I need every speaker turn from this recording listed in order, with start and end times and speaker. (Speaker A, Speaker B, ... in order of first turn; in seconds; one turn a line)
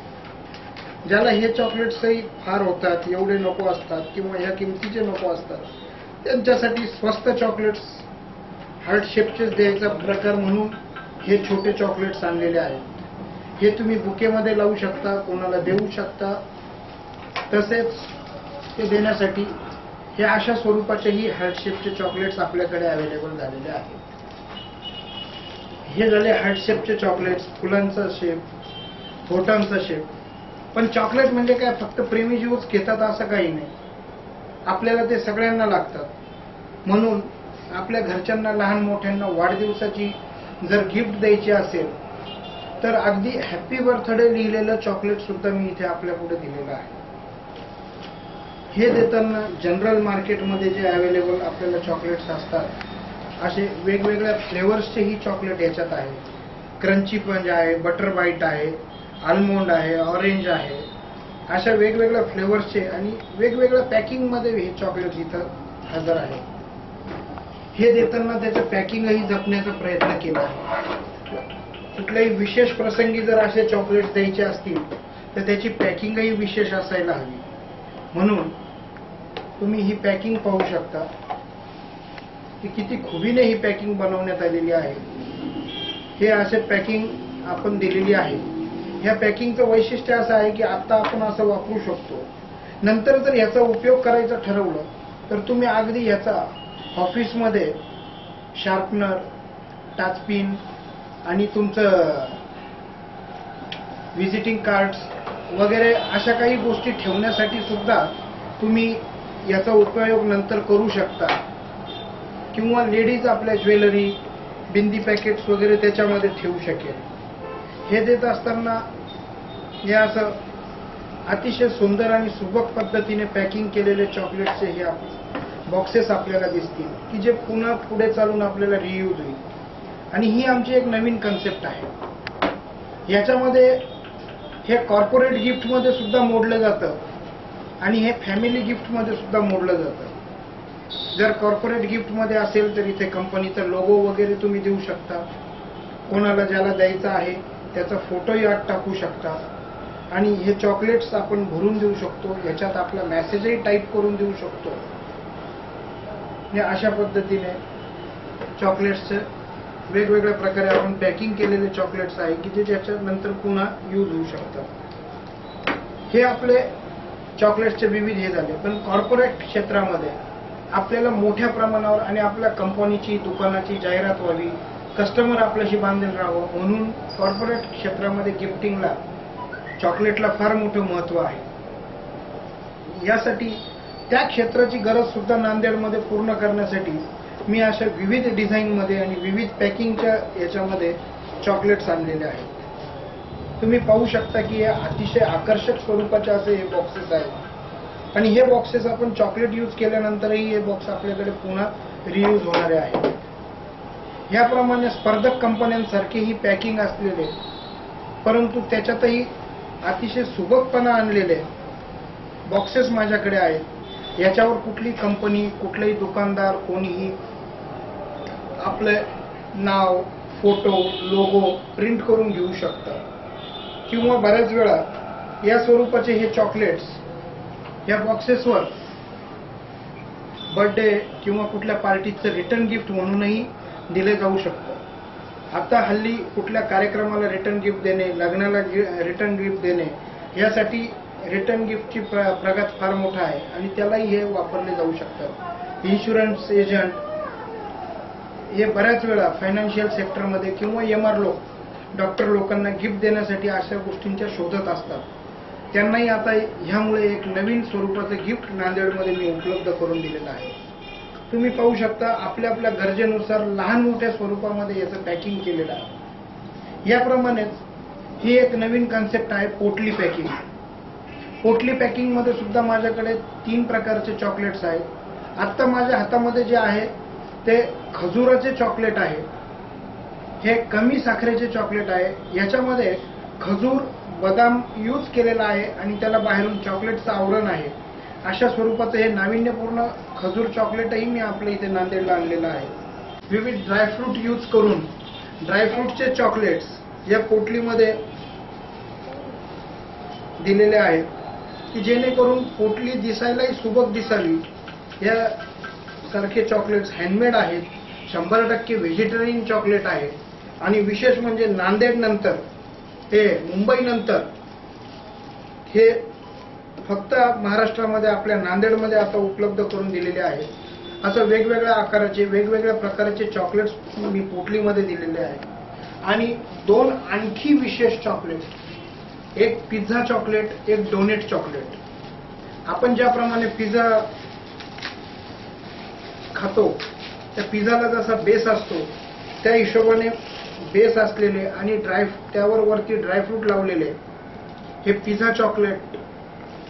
Speaker A: 1.1-5.7
Speaker A: 6.2-8.1
Speaker A: 8.8-13.1
Speaker A: 13.6-16.4
Speaker A: 17.5-18.1
Speaker A: 18.8-19.6
Speaker A: 20.2-24.0
Speaker A: 25.9-28.4
Speaker A: 29.3-30.1
Speaker A: 30.7-33.7
Speaker A: 34.7-36.1
Speaker A: 36.9-42.0
Speaker A: 42.8-47.0
Speaker A: 48.7-52.7
Speaker A: 53.4-56.2
Speaker A: 56.8-60.9
Speaker A: 61.5-66.5
Speaker A: 67.8-70.6
Speaker A: 72.0-77.5
Speaker A: 78.1-78.6
Speaker A: 79.6-81.1
Speaker A: 82.6-85.0
Speaker A: 86.2-88.5
Speaker A: 89.0-92.3
Speaker A: 92.8-97.8
Speaker A: 98.5-99.3
Speaker A: 100.0-100.6
Speaker A: 101.2-102.4
Speaker A: 104.2-111.4
Speaker A: 112.5-117.1
Speaker A: 117.9-118.8
Speaker A: 119.8-120.4
Speaker A: 121.3-125.1
Speaker A: 125.7-129.4
Speaker A: 130.1-131.9
Speaker A: 133.1-133.9
Speaker A: 134.7-137.0
Speaker A: 137.8-140.2
Speaker A: 141.2-145.3
Speaker A: 146.1-149.4
Speaker A: 150.1-154.8
Speaker A: 156.5-157.6
Speaker A: 158.6-159.3
Speaker A: 159.9-164.7
Speaker A: 166.1-166.7
Speaker A: 167.4-170.2
Speaker A: 170.7-179.0
Speaker A: 179.8-181.5
Speaker A: 182.9-192.5
Speaker A: 193.6-197.4
Speaker A: 198.1-203.2
Speaker A: 204.3-207.4
Speaker A: 208.2-209.3
Speaker A: 209.8-211.5
Speaker A: 212.5-213.7
Speaker A: 214.2-217.2
Speaker A: 218.6-223.0
Speaker A: 223.9-224.8
Speaker A: 225.4-227.0
Speaker A: 227.9-228.7
Speaker A: 230.5-234.8
Speaker A: 235.5-247.0
Speaker A: 248.5-255.1
Speaker A: 255.7-260.6
Speaker A: 261.3-265.9
Speaker A: 266.9-267.6
Speaker A: 268.2-270.4
Speaker A: 271.4-274.9
Speaker A: 275.4-276.9
Speaker A: 277.4-279.3
Speaker A: 280.4-292.7
Speaker A: 293.3-294.9
Speaker A: 295.4-298.0
Speaker A: 300.4-301.1
Speaker A: 301.7-304.4
Speaker A: 305.0-305.4
Speaker A: 306.0-312.4
Speaker A: 313.1-314.3
Speaker A: 315.7-316.0
Speaker A: 316.8-320.5
Speaker A: 321.0-325.5
Speaker A: 326.0-328.5
Speaker A: 329.4-331.8
Speaker A: 332.7-334.1
Speaker A: 336.3-336.8
Speaker A: 337.4-344.0
Speaker A: 344.8-346.0